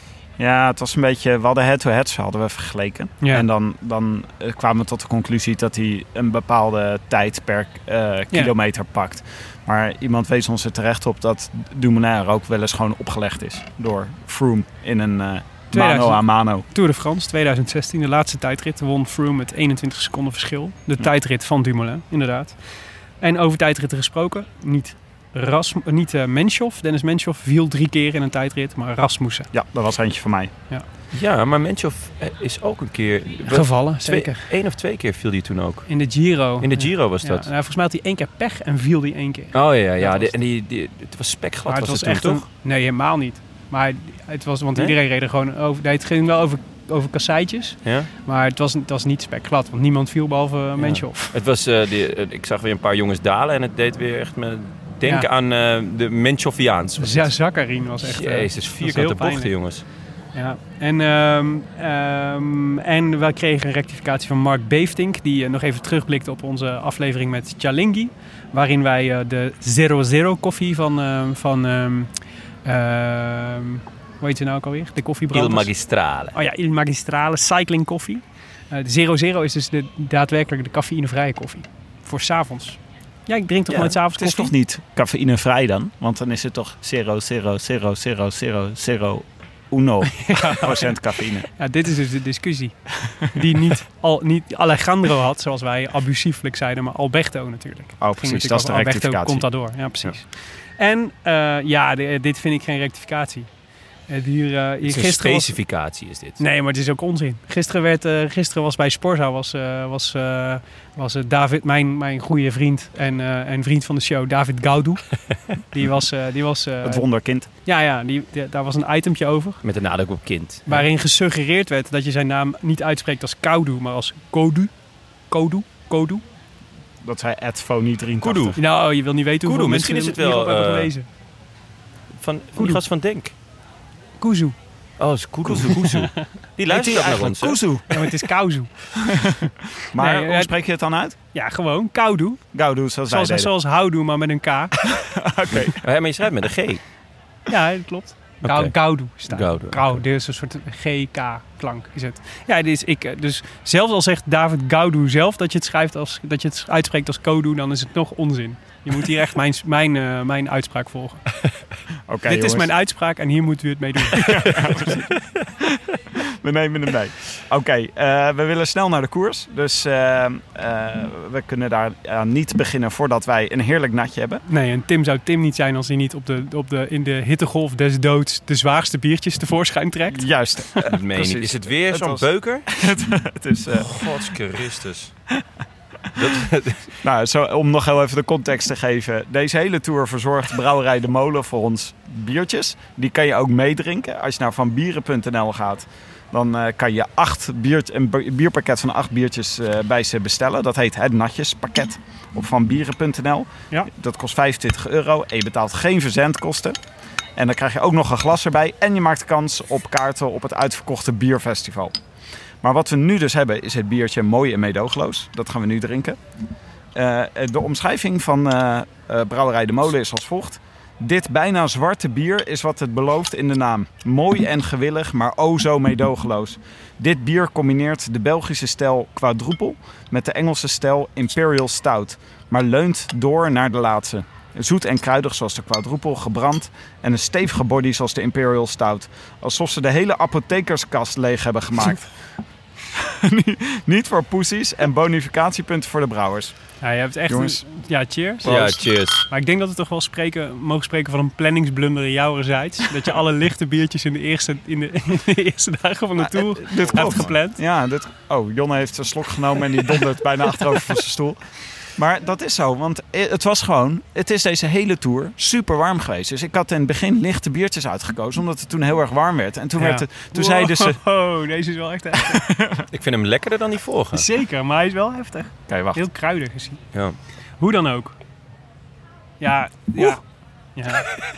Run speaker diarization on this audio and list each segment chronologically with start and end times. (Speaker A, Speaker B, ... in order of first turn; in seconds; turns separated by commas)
Speaker A: 0.4-16.6, Speaker B: 15.7-29.5, Speaker A: 29.5-30.5, Speaker C: 31.1-37.5, Speaker B: 33.5-34.5, Speaker B: 35.9-40.3, Speaker C: 39.5-42.4, Speaker B: 41.7-51.3, Speaker C: 50.8-57.4, Speaker B: 57.0-59.5, Speaker C: 58.0-59.8, Speaker B: 60.3-75.7, Speaker C: 75.3-76.4, Speaker B: 76.3-84.5, Speaker A: 83.7-91.5, Speaker B: 90.1-91.0, Speaker B: 91.5-103.5, Speaker A: 98.0-99.5, Speaker B: 104.1-105.7, Speaker C: 104.8-106.4, Speaker B: 106.4-119.6, Speaker A: 116.8-117.5, Speaker C: 119.6-120.8, Speaker B: 120.7-124.7, Speaker B: 125.3-126.2, Speaker A: 127.0-128.6, Speaker C: 128.2-128.7, Speaker B: 128.6-131.1, Speaker C: 129.4-130.9, Speaker C: 132.2-133.3, Speaker B: 132.6-132.8, Speaker B: 134.2-134.6, Speaker C: 135.0-137.6, Speaker A: 135.5-135.8, Speaker A: 136.7-137.9, Speaker B: 137.9-139.0, Speaker A: 139.1-141.2, Speaker B: 140.0-140.5, Speaker B: 141.3-142.4, Speaker A: 142.5-143.5, Speaker B: 143.1-144.8, Speaker A: 144.9-145.8, Speaker C: 145.5-146.8, Speaker B: 147.5-161.2, Speaker C: 148.4-150.0, Speaker A: 162.1-162.7, Speaker B: 162.3-164.7, Speaker A: 164.2-174.4, Speaker B: 174.5-180.3, Speaker A: 180.1-184.2, Speaker C: 180.9-182.7, Speaker C: 183.8-185.1, Speaker C: 186.2-186.9, Speaker A: 187.0-206.8, Speaker A: 207.4-211.9, Speaker A: 212.6-216.2, Speaker A: 216.9-242.1, Speaker A: 242.9-247.6, Speaker B: 246.8-257.6, Speaker C: 248.4-249.3, Speaker A: 256.4-271.0, Speaker C: 256.9-257.3, Speaker B: 269.8-272.4, Speaker A: 272.4-272.9, Speaker C: 272.9-274.3, Speaker B: 274.1-276.8, Speaker A: 275.7-276.0, Speaker B: 277.6-278.1, Speaker B: 279.4-280.2, Speaker B: 280.8-281.1